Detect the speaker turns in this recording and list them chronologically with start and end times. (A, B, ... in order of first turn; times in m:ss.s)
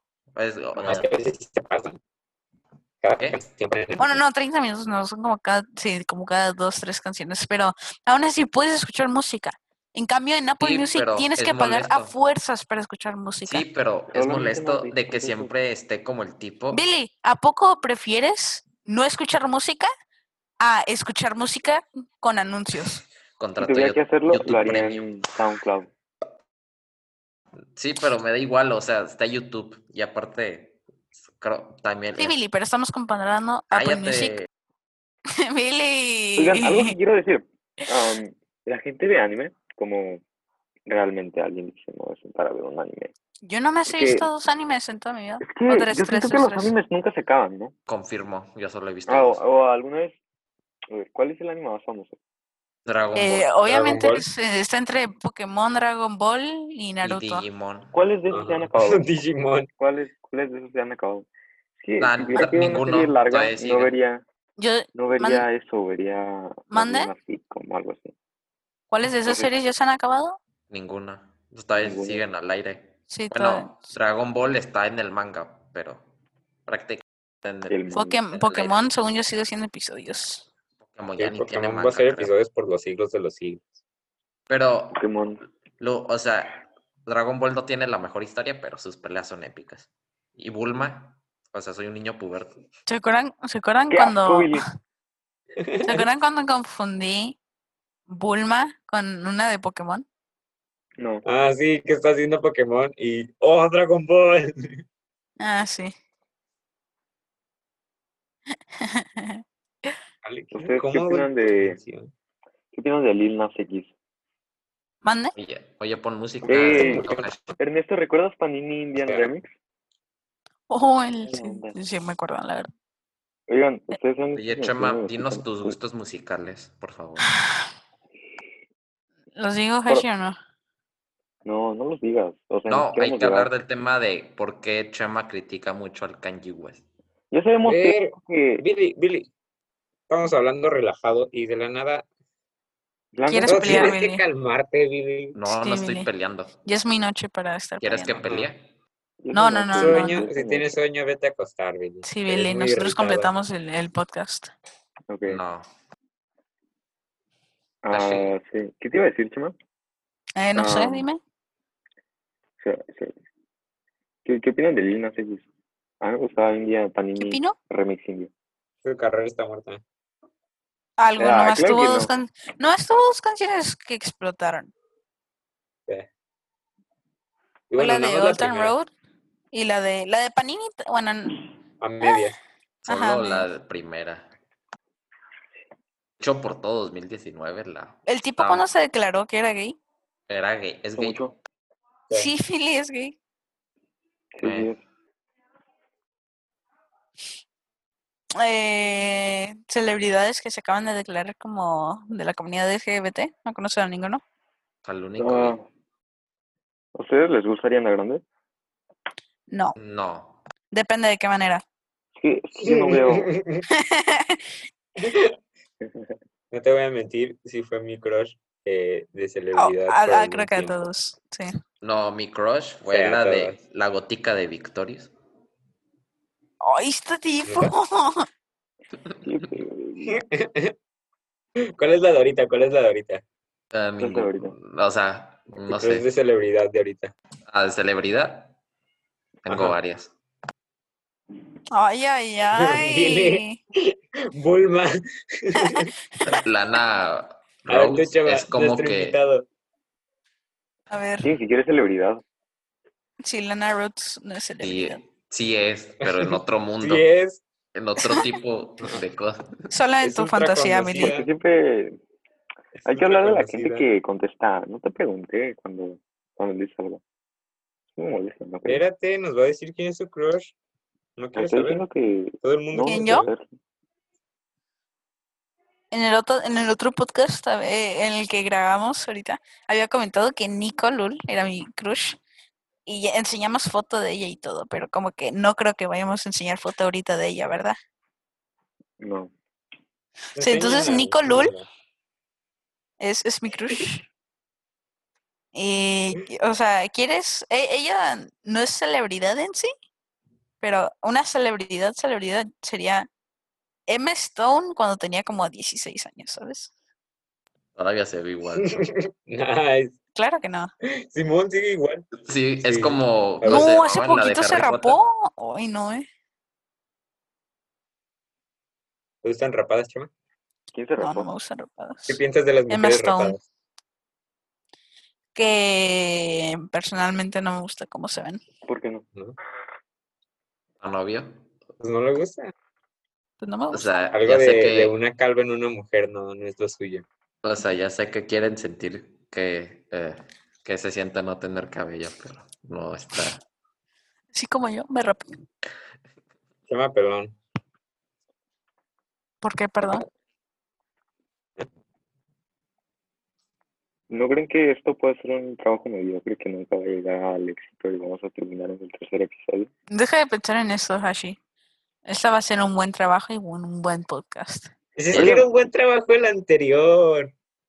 0:00.3-0:01.1 A
0:00.7-0:02.0 B
0:03.0-0:04.2 B
0:04.0-0:13.6 C
0:10.6-0:12.1 A
0:13.4-0:16.8 A
0:14.1-0:15.5 D
0:16.7-0:19.9 C
0:20.6-0:23.0 C
0:23.4-0:25.1 A
0:23.6-0:25.9 D
0:27.7-0:30.8 A
0:31.4-0:32.3 A
0:32.2-0:34.4 C
0:33.7-0:34.5 A
0:35.4-0:36.9 C
0:36.4-0:40.2 D
0:40.9-0:43.1 D
0:43.4-0:46.7 C
0:43.9-0:44.3 D
0:45.4-0:47.7 D
0:47.9-0:49.4 A
0:49.1-0:50.2 D
0:50.9-0:52.2 D
0:52.8-0:54.0 A
0:53.1-0:57.4 C
0:53.6-0:54.2 B
0:57.0-0:57.9 A
0:57.9-0:59.1 D
0:58.3-0:59.7 B
0:59.8-1:01.3 D
1:01.8-1:04.2 D
1:02.0-1:03.9 A
1:02.4-1:02.8 B
1:04.6-1:05.4 C
1:04.9-1:08.1 D
1:06.7-1:07.1 C
1:08.9-1:10.4 C
1:09.2-1:09.5 D
1:10.7-1:16.0 A
1:11.8-1:12.2 D
1:13.1-1:13.9 C
1:16.7-1:17.8 A
1:17.7-1:18.2 D
1:17.9-1:20.4 C
1:18.3-1:18.8 A
1:20.8-1:22.3 A
1:21.2-1:23.6 B
1:24.5-1:25.0 A
1:24.9-1:25.4 D
1:25.8-1:32.6 A
1:32.9-1:34.7 C
1:33.9-1:34.6 D
1:35.6-1:36.0 B
1:35.8-1:37.4 C
1:38.1-1:40.0 C
1:41.0-1:41.2 D
1:41.2-1:44.8 B
1:45.4-1:45.9 C
1:48.7-1:49.9 C
1:50.2-1:52.1 B
1:50.5-1:51.8 D
1:52.7-1:53.9 D
1:55.0-1:55.3 C
1:55.3-1:57.4 A
1:56.4-1:57.1 D
1:56.6-1:57.3 B
1:57.6-1:59.5 D
1:59.0-1:59.3 B
2:00.7-2:02.7 C
2:01.2-2:01.8 D
2:03.5-2:05.8 D
2:04.3-2:07.3 A
2:07.2-2:07.6 C
2:09.4-2:10.4 C
2:11.4-2:13.5 D
2:12.7-2:16.8 A
2:17.3-2:18.6 D
2:17.6-2:19.3 B
2:20.1-2:22.0 B
2:23.1-2:24.0 D
2:23.3-2:24.2 C
2:23.4-2:25.4 B
2:25.3-2:26.5 A
2:25.5-2:26.1 C
2:26.6-2:28.2 C
2:27.8-2:28.7 A
2:29.2-2:30.8 D
2:29.3-2:30.2 C
2:29.7-2:33.3 B
2:32.0-2:34.5 C
2:35.1-2:35.4 D
2:35.2-2:35.6 A
2:37.8-2:39.5 D
2:37.9-2:38.3 A
2:40.4-2:41.2 C
2:40.5-2:41.1 D
2:42.6-2:43.2 D
2:44.2-2:45.4 D
2:46.0-2:48.3 D
2:47.2-2:47.6 C
2:48.8-2:49.8 B
2:51.0-2:54.7 C
2:51.2-2:52.1 D
2:57.7-2:58.7 B
2:57.8-2:58.9 C
2:59.5-3:01.4 C
3:01.8-3:02.4 B
3:02.8-3:04.3 A
3:02.9-3:03.4 C
3:06.2-3:08.7 A
3:08.1-3:09.8 C
3:10.3-3:11.2 A
3:11.0-3:11.3 D
3:12.1-3:13.2 C
3:14.3-3:14.8 D
3:14.4-3:14.7 A
3:18.4-3:24.2 C
3:24.8-3:25.6 A
3:25.2-3:25.6 D
3:26.9-3:28.2 D
3:29.5-3:29.8 C
3:29.8-3:30.4 A
3:30.7-3:31.6 C
3:32.2-3:33.3 D
3:32.6-3:33.6 B
3:33.7-3:34.6 C
3:35.0-3:35.3 B
3:36.5-3:40.8 B
3:39.6-3:41.5 C
3:41.8-3:45.1 A
3:42.9-3:43.6 B
3:46.6-3:48.3 C
3:47.4-3:47.7 B
3:49.2-3:50.2 D
3:50.1-3:50.7 B
3:51.7-3:53.2 B
3:53.7-3:56.0 A
3:54.0-3:54.6 D
3:55.7-3:57.1 B
3:57.5-3:58.5 A
3:59.4-4:00.1 A
3:59.5-3:59.8 B
4:01.7-4:03.6 C
4:02.5-4:05.9 B
4:05.6-4:05.9 C
4:06.2-4:09.2 A
4:07.7-4:09.4 B
4:10.9-4:11.3 C
4:11.2-4:12.2 D
4:13.2-4:15.0 C
4:14.6-4:17.0 A
4:16.0-4:17.4 B
4:17.7-4:19.7 A
4:18.0-4:18.3 C
4:19.7-4:21.1 C
4:20.0-4:21.3 B
4:21.0-4:22.0 D
4:22.8-4:23.8 B
4:22.8-4:27.0 D
4:28.0-4:28.8 D
4:28.6-4:30.5 B
4:31.2-4:31.8 B
4:31.3-4:33.4 D
4:32.4-4:33.3 B
4:32.8-4:33.3 C
4:35.9-4:42.2 C
4:42.8-4:47.8 C
4:49.0-4:49.3 D
4:50.4-4:51.5 C
4:50.4-4:51.6 B
4:53.0-4:54.0 C
4:55.5-4:59.7 C
5:00.6-5:03.1 C
5:03.9-5:06.7 C
5:07.7-5:08.8 A
5:08.6-5:09.9 B
5:10.2-5:10.7 C
5:11.0-5:12.1 B
5:12.2-5:15.0 A
5:12.6-5:13.7 B
5:13.5-5:16.1 C
5:19.2-5:20.1 B
5:20.7-5:21.3 D
5:21.0-5:23.4 C
5:22.1-5:23.4 B
5:25.3-5:28.4 C
5:28.6-5:29.0 D
5:30.8-5:31.4 A
5:31.8-5:32.5 B
5:33.4-5:34.0 C
5:33.7-5:35.0 A
5:34.1-5:37.0 B
5:37.4-5:43.4 A
5:44.3-5:45.3 C
5:46.7-5:47.3 B
5:49.4-5:50.0 C
5:54.1-5:59.7 D
5:59.9-6:01.4 C
6:02.0-6:04.7 C
6:05.0-6:07.3 B
6:05.1-6:05.4 A
6:05.1-6:05.5 D